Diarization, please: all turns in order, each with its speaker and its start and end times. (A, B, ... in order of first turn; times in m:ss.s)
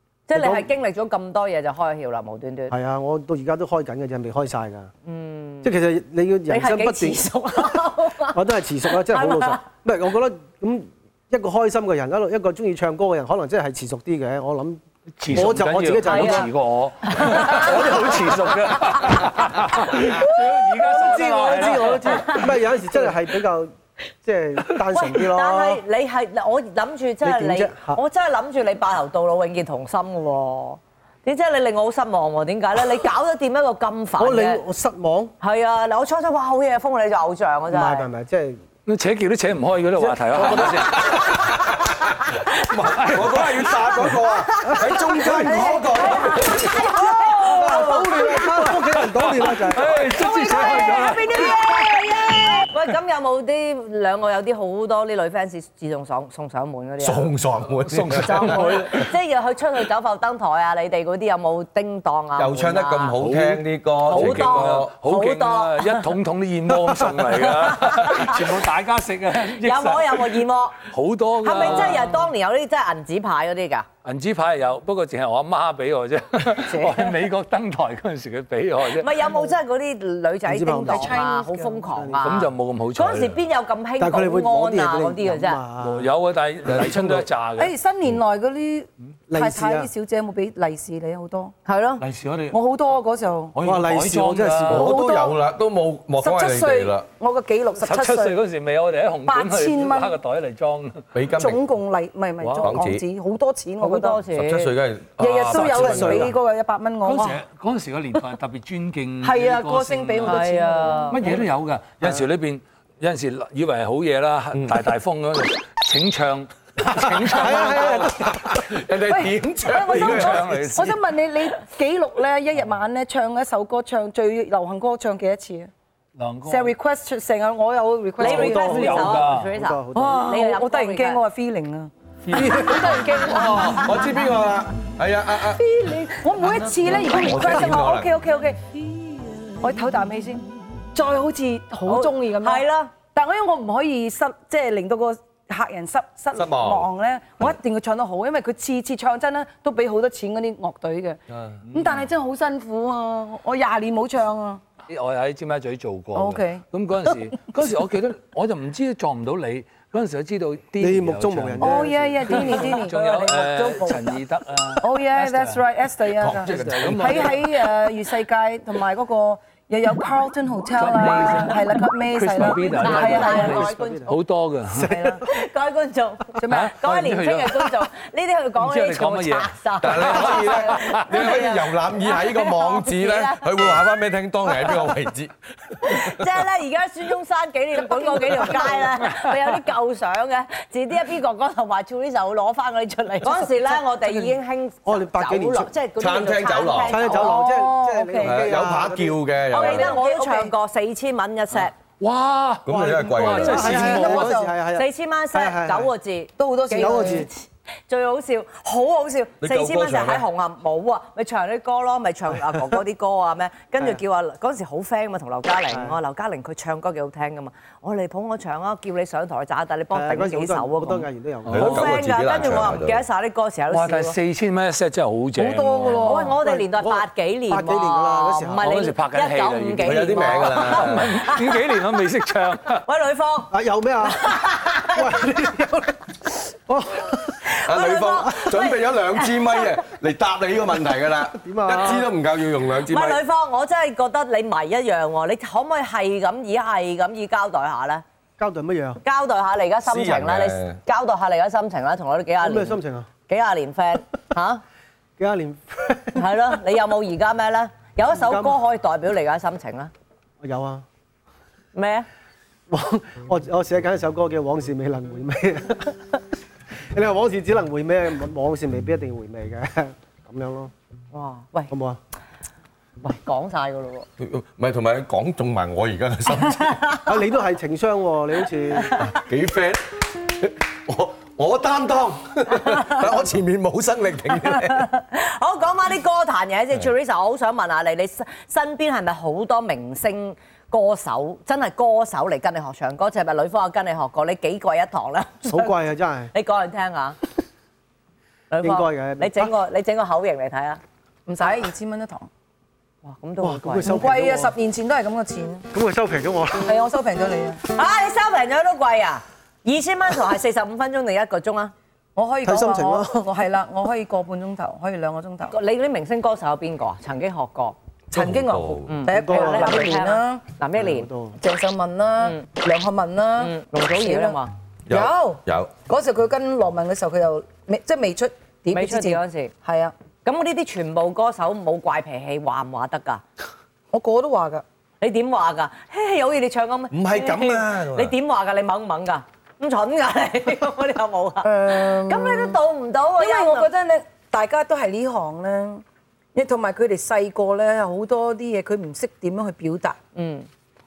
0:00.3-0:02.7 A
0:00.3-0:00.7 B
0:02.7-0:04.9 B
0:05.0-0:05.7 A
0:05.6-0:16.5 B
0:06.5-0:09.6 A
0:15.2-0:22.5 C
0:16.0-0:16.5 A
0:17.1-0:17.7 A
0:17.6-0:18.3 B
0:19.9-0:25.8 B
0:22.0-0:22.5 A
0:24.9-0:34.6 A
0:27.2-0:28.0 B
0:34.2-0:35.3 B
0:35.4-0:38.1 A
0:37.7-0:38.6 B
0:38.9-0:41.3 C
0:40.0-0:41.3 B
0:40.5-0:46.9 D
0:42.8-0:44.1 C
0:44.5-0:48.5 A
0:44.6-0:45.8 B
0:46.8-0:50.1 B
0:47.5-0:51.6 C
0:50.0-0:52.3 E
0:50.4-0:57.3 A
0:57.0-0:59.0 D
0:57.8-0:59.0 C
0:58.2-1:03.2 A
1:02.4-1:04.9 D
1:03.2-1:12.3 C
1:04.0-1:06.1 A
1:07.7-1:08.4 A
1:09.6-1:10.8 A
1:11.4-1:13.9 A
1:14.0-1:19.1 C
1:16.6-1:17.1 A
1:18.9-1:25.6 A
1:20.4-1:21.2 B
1:20.8-1:21.9 E
1:21.9-1:22.3 B
1:22.2-1:23.4 C
1:24.0-1:26.1 B
1:25.8-1:27.7 C
1:26.6-1:27.2 D
1:27.6-1:31.5 E
1:29.3-1:29.9 B
1:31.6-1:32.0 A
1:32.0-1:32.5 C
1:32.2-1:32.5 D
1:32.5-1:33.6 E
1:33.6-1:34.9 C
1:33.6-1:34.9 B
1:34.7-1:37.1 D
1:34.7-1:35.4 E
1:36.2-1:38.4 E
1:37.8-1:41.1 C
1:39.2-1:40.2 E
1:41.1-1:41.6 D
1:41.3-1:44.2 E
1:42.4-1:42.8 C
1:42.6-1:43.0 D
1:43.8-1:44.7 A
1:44.3-1:46.3 D
1:45.2-1:47.4 E
1:45.5-1:46.3 B
1:47.0-1:58.1 C
1:49.2-1:51.4 E
1:50.2-1:51.2 A
1:57.0-1:58.6 B
1:57.3-2:00.9 D
1:59.0-2:05.7 E
1:59.8-2:01.0 C
2:06.2-2:06.7 C
2:06.4-2:09.0 E
2:08.2-2:11.2 A
2:08.2-2:09.5 C
2:08.2-2:10.3 B
2:09.9-2:14.1 E
2:12.2-2:14.0 C
2:13.3-2:15.6 D
2:15.4-2:18.6 E
2:17.1-2:18.1 D
2:19.6-2:31.2 E
2:21.8-2:22.9 A
2:26.3-2:26.9 D
2:31.3-2:31.6 D
2:31.7-2:34.6 E
2:34.9-2:45.6 C
2:36.1-2:36.6 E
2:40.8-2:42.6 B
2:41.6-2:44.2 E
2:44.8-2:53.7 E
2:46.2-2:47.4 D
2:46.3-2:47.5 C
2:50.7-2:55.0 C
2:52.5-2:54.2 A
2:52.8-2:54.1 B
2:54.7-2:55.2 B
2:55.2-3:03.8 A
2:56.4-2:56.8 E
2:56.5-2:57.7 C
2:58.6-3:01.0 C
2:59.8-3:06.3 D
3:05.8-3:18.4 A
3:07.8-3:08.9 E
3:13.2-3:14.3 E
3:14.8-3:15.7 B
3:16.0-3:17.2 D
3:16.8-3:19.3 B
3:17.2-3:18.2 E
3:18.2-3:20.0 D
3:19.5-3:20.5 E
3:19.5-3:21.7 A
3:22.0-3:24.3 C
3:22.6-3:24.1 D
3:22.7-3:25.9 B
3:23.5-3:24.5 E
3:24.7-3:44.2 A
3:26.4-3:27.3 E
3:26.8-3:27.3 B
3:29.4-3:30.2 D
3:35.7-3:36.0 B
3:39.9-3:42.7 B
3:41.4-3:41.8 C
3:41.5-3:43.0 D
3:43.7-3:46.2 C
3:45.4-3:46.4 E
3:45.9-3:51.6 A
3:46.4-3:48.7 B
3:48.6-3:52.8 C
3:49.8-3:51.2 D
3:52.8-3:53.5 A
3:53.5-3:57.5 B
3:54.0-3:55.3 A
3:57.4-3:59.7 A
3:57.6-4:03.2 D
4:01.3-4:02.1 B
4:02.8-4:08.0 A
4:08.4-4:09.0 B
4:09.0-4:14.6 A
4:09.8-4:10.8 D
4:12.4-4:13.1 B
4:15.2-4:16.6 B
4:16.1-4:19.9 A
4:18.1-4:18.6 B
4:20.4-4:20.8 B
4:21.7-4:22.1 A
4:22.7-4:26.1 B
4:26.9-4:30.7 B
4:31.1-4:31.7 A
4:31.7-4:32.0 B
4:33.0-4:34.1 A
4:34.2-4:36.9 D
4:36.4-4:37.1 A
4:37.0-4:39.0 B
4:38.9-4:44.9 D
4:44.7-4:55.7 A
4:55.4-4:56.3 B
4:56.3-4:57.2 A
4:58.5-5:00.8 A
4:58.6-4:59.5 B
5:01.3-5:02.3 E
5:03.0-5:04.1 A
5:03.4-5:04.5 B
5:03.8-5:05.6 E
5:05.7-5:06.7 B
5:06.6-5:07.6 E
5:07.7-5:11.7 A
5:12.2-5:15.5 E
5:12.4-5:13.2 B
5:15.5-5:17.8 A
5:18.1-5:19.0 D
5:18.1-5:20.4 E
5:18.9-5:21.1 A
5:19.1-5:20.0 B
5:20.7-5:21.4 B
5:21.4-5:29.9 E
5:23.4-5:24.5 A
5:24.9-5:25.7 D
5:28.7-5:29.5 A
5:30.2-5:33.2 A
5:33.9-5:34.6 E
5:35.0-5:43.7 A
5:36.9-5:38.1 D
5:41.4-5:42.6 E
5:43.2-5:45.8 E
5:46.3-5:50.0 E
5:50.1-5:50.5 A